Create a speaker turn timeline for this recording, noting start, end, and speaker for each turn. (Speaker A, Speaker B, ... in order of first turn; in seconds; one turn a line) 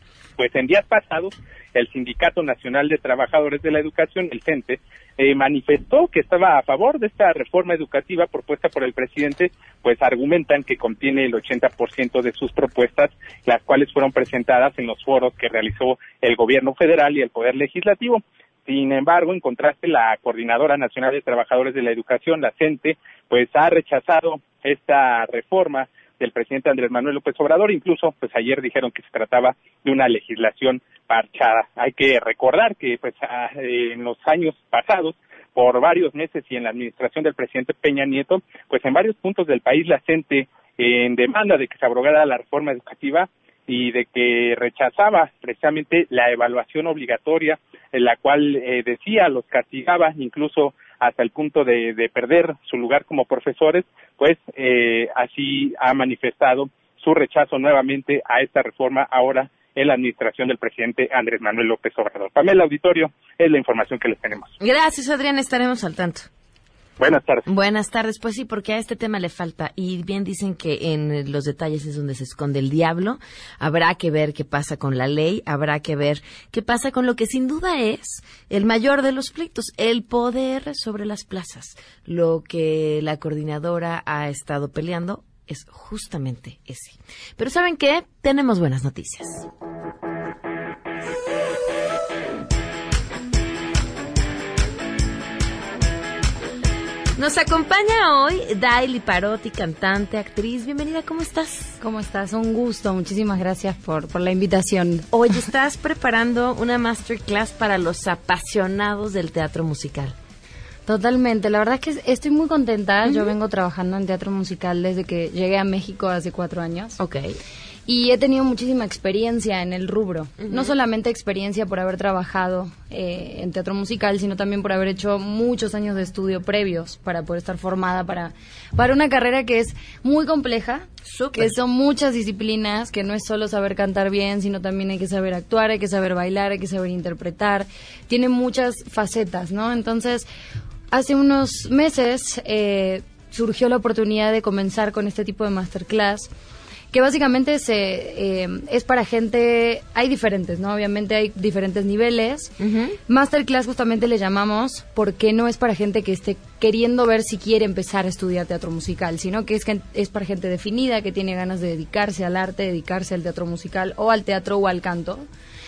Speaker A: 0.4-64.5
Speaker B: 64.6-66.3
Speaker A: 67.0-67.5
Speaker B: 67.5-89.5
Speaker B: 97.2-101.8
Speaker C: 101.8-105.1
Speaker B: 105.1-110.2
Speaker C: 110.9-117.0
Speaker B: 113.0-113.3
Speaker B: 117.0-117.4
Speaker C: 117.9-140.3
Speaker B: 120.4-120.8
Speaker B: 131.1-131.5
Speaker C: 140.9-146.3
Speaker C: 146.9-152.5
Speaker B: 152.6-153.0
Speaker C: 153.1-165.3